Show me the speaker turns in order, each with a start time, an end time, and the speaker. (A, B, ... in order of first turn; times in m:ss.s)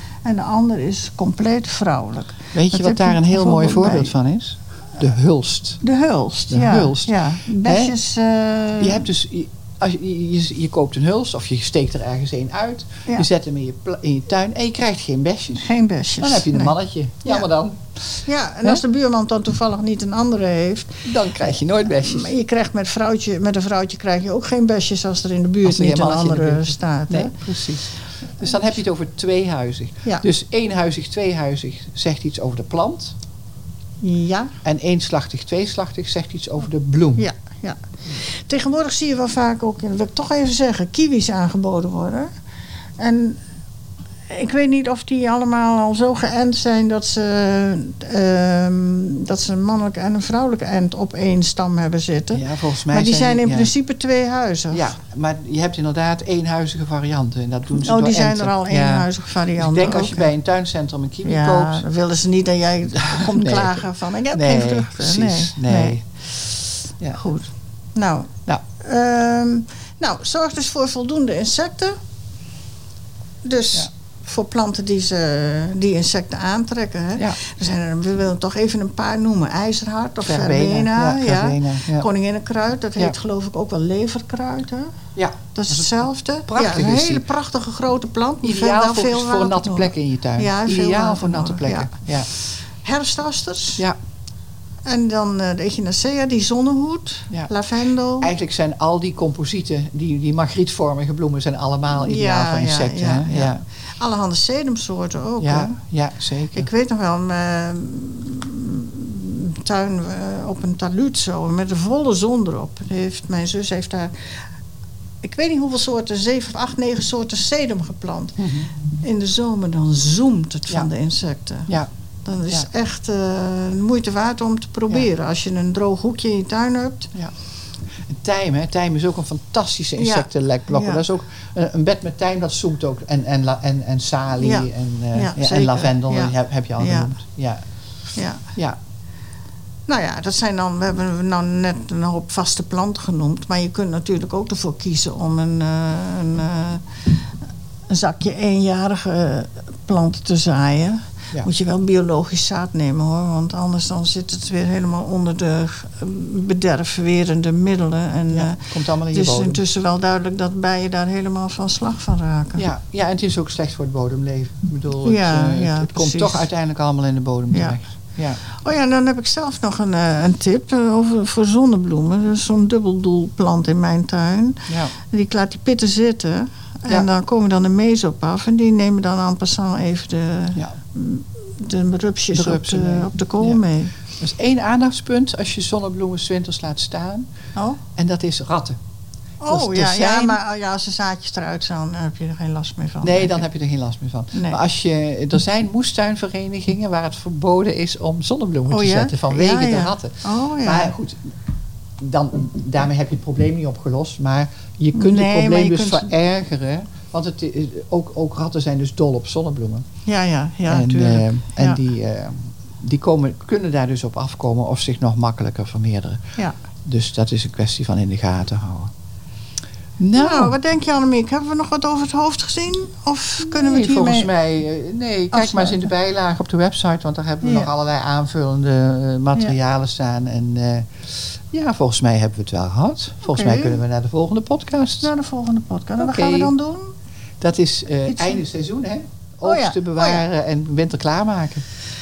0:00.2-0:04.1 A
0:02.5-0:05.8 B
0:05.8-0:09.0 A
0:06.5-0:07.9 B
0:08.8-0:15.7 B
0:15.5-0:16.7 A
0:16.2-0:18.8 B
0:18.2-0:27.4 A
0:21.0-0:22.3 B
0:25.6-0:33.1 B
0:34.0-0:34.5 A
0:34.6-0:37.3 B
0:37.2-0:42.3 A
0:43.0-0:43.4 A
0:44.3-0:54.9 A
0:52.3-0:53.7 B
0:54.7-1:01.8 B
0:57.8-1:00.3 A
1:01.2-1:06.5 A
1:02.9-1:06.0 B
1:07.1-1:11.9 A
1:13.4-1:24.9 A
1:20.2-1:22.1 B
1:25.2-1:27.2 B
1:25.5-1:33.8 A
1:28.4-1:32.3 B
1:34.8-1:38.3 A
1:38.2-1:43.6 B
1:42.0-1:45.8 A
1:45.4-1:46.7 B
1:46.5-1:54.3 A
1:55.2-2:07.1 A
1:58.4-1:58.7 B
2:08.1-2:17.6 B
2:10.0-2:11.0 A
2:14.4-2:17.1 A
2:18.2-2:18.4 A
2:19.9-2:27.2 A
2:27.9-2:42.6 A
2:38.3-2:39.6 B
2:42.6-2:48.4 B
2:45.0-2:46.4 A
2:47.5-2:47.8 A
2:48.4-3:03.9 A
2:54.7-2:54.9 B
3:02.3-3:03.6 B
3:04.2-3:07.3 B
3:07.6-3:07.8 A
3:08.0-3:08.8 B
3:09.4-3:13.5 A
3:09.5-3:10.4 B
3:13.0-3:21.3 B
3:14.3-3:14.6 A
3:18.7-3:20.9 A
3:22.0-3:29.8 B
3:24.9-3:26.1 A
3:30.0-3:31.8 A
3:30.7-3:36.2 B
3:36.8-3:38.9 B
3:40.0-3:40.5 B
3:40.1-3:44.3 A
3:43.4-3:55.1 B
3:45.3-3:45.9 A
3:47.4-3:47.7 A
3:53.2-3:53.8 A
3:55.0-3:56.9 A
3:56.0-3:56.5 B
3:57.4-4:01.6 B
3:58.1-3:58.4 A
3:59.4-4:00.2 A